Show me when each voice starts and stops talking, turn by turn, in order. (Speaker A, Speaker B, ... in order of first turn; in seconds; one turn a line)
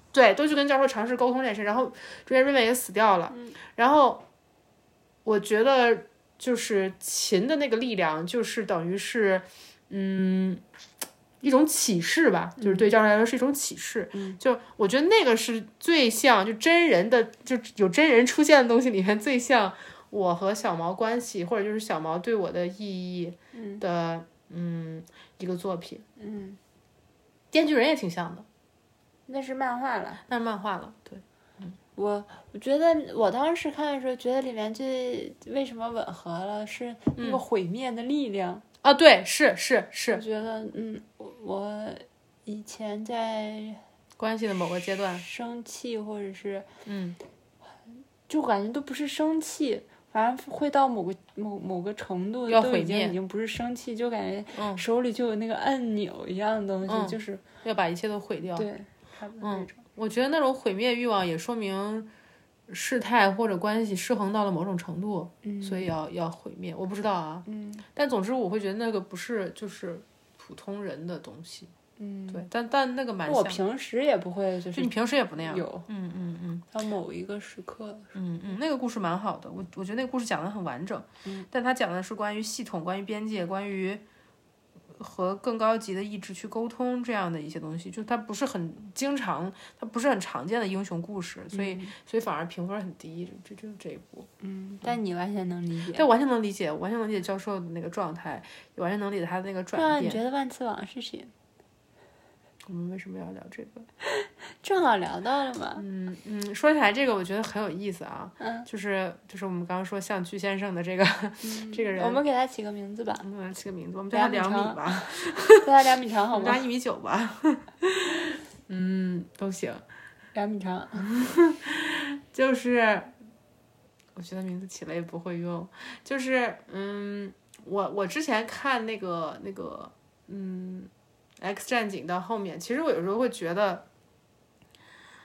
Speaker A: 0.1-4.2
Speaker B: 3.3-3.6
Speaker A: 5.2-10.6
Speaker A: 11.4-26.0
Speaker B: 12.6-12.9
Speaker B: 14.1-14.4
Speaker B: 23.5-23.8
Speaker B: 26.2-26.6
Speaker A: 27.5-28.4
Speaker B: 29.3-30.2
Speaker A: 30.3-31.8
Speaker B: 31.9-38.6
Speaker A: 37.2-37.4
Speaker A: 38.8-40.2
Speaker B: 40.1-43.8
Speaker A: 44.2-45.2
Speaker B: 45.1-46.7
Speaker A: 46.9-47.2
Speaker B: 48.3-57.4
Speaker A: 52.5-53.2
Speaker A: 54.5-54.8
Speaker A: 56.9-58.7
Speaker B: 58.5-59.8
Speaker A: 59.4-62.1
Speaker A: 62.7-71.7
Speaker B: 65.4-65.9
Speaker B: 67.5-67.8
Speaker B: 72.0-72.5
Speaker A: 72.3-73.6
Speaker B: 73.2-75.9
Speaker A: 74.7-76.6
Speaker B: 76.7-78.1
Speaker A: 78.1-84.0
Speaker A: 84.9-94.3
Speaker B: 91.5-91.9
Speaker B: 94.4-96.1
Speaker A: 95.9-100.2
Speaker B: 99.7-101.3
Speaker A: 102.7-103.9
Speaker B: 104.2-105.8
Speaker A: 105.8-112.2
Speaker B: 108.4-108.7
Speaker B: 111.4-113.3
Speaker A: 113.2-115.7
Speaker B: 114.1-116.6
Speaker A: 116.3-119.8
Speaker B: 120.3-121.0
Speaker A: 121.0-123.1
Speaker A: 124.2-133.8